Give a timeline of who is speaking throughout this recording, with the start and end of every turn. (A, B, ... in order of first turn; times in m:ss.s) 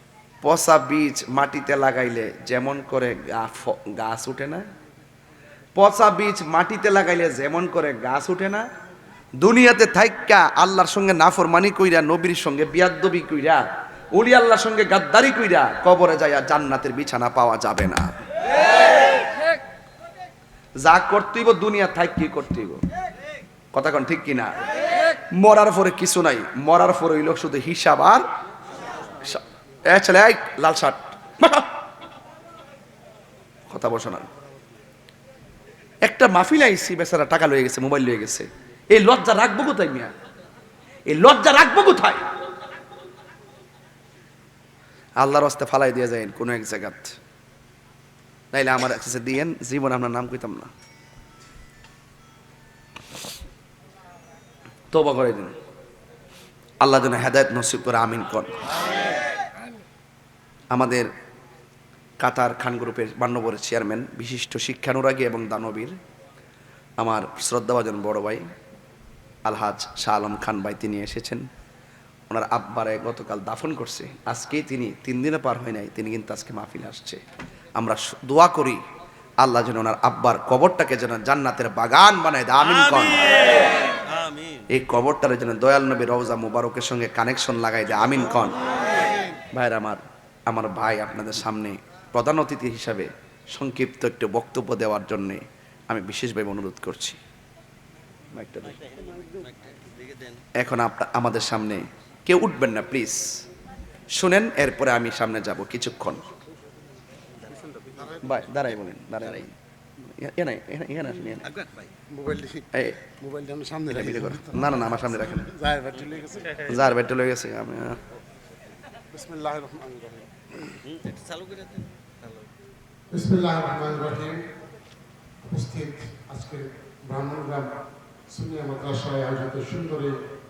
0:00.4-0:04.6 A
0:05.7-0:08.6 A
0:09.4-0:13.6 A
0:14.1-0:18.0 A
0:20.8-0:22.8 A
0:23.7-0:24.5 A
0:25.3-0:28.2 A
0:29.2-0:31.7 A
0:33.7-0:34.3 A
0:36.0-0:40.1 A
0:41.1-0:42.2 A
0:45.2-0:47.1 A
0:48.5-0:50.7 A
0:54.9-0:55.6 A
0:56.8-0:58.6 A
1:00.7-1:01.1 A
1:02.2-1:06.0 A
1:07.0-1:08.4 A
1:09.4-1:11.5 A
1:12.3-1:17.2 A
1:17.8-1:18.8 A
1:19.4-1:23.6 A
1:24.0-1:24.6 B
1:24.7-1:28.6 A
1:29.5-1:37.2 A
1:38.3-1:38.8 A
1:38.8-1:40.4 B
1:40.6-1:43.4 A
1:44.1-1:46.2 A
1:48.2-1:49.5 A
1:50.2-1:51.6 A
1:51.5-1:51.9 B
1:52.1-1:52.7 C
1:52.7-1:53.0 A
1:53.2-1:56.7 C
1:53.9-1:55.5 A
1:56.6-1:58.0 A
1:59.1-2:00.7 C
2:00.8-2:01.9 B
2:03.1-2:04.4 C
2:05.4-2:07.7 C
2:08.3-2:10.1 C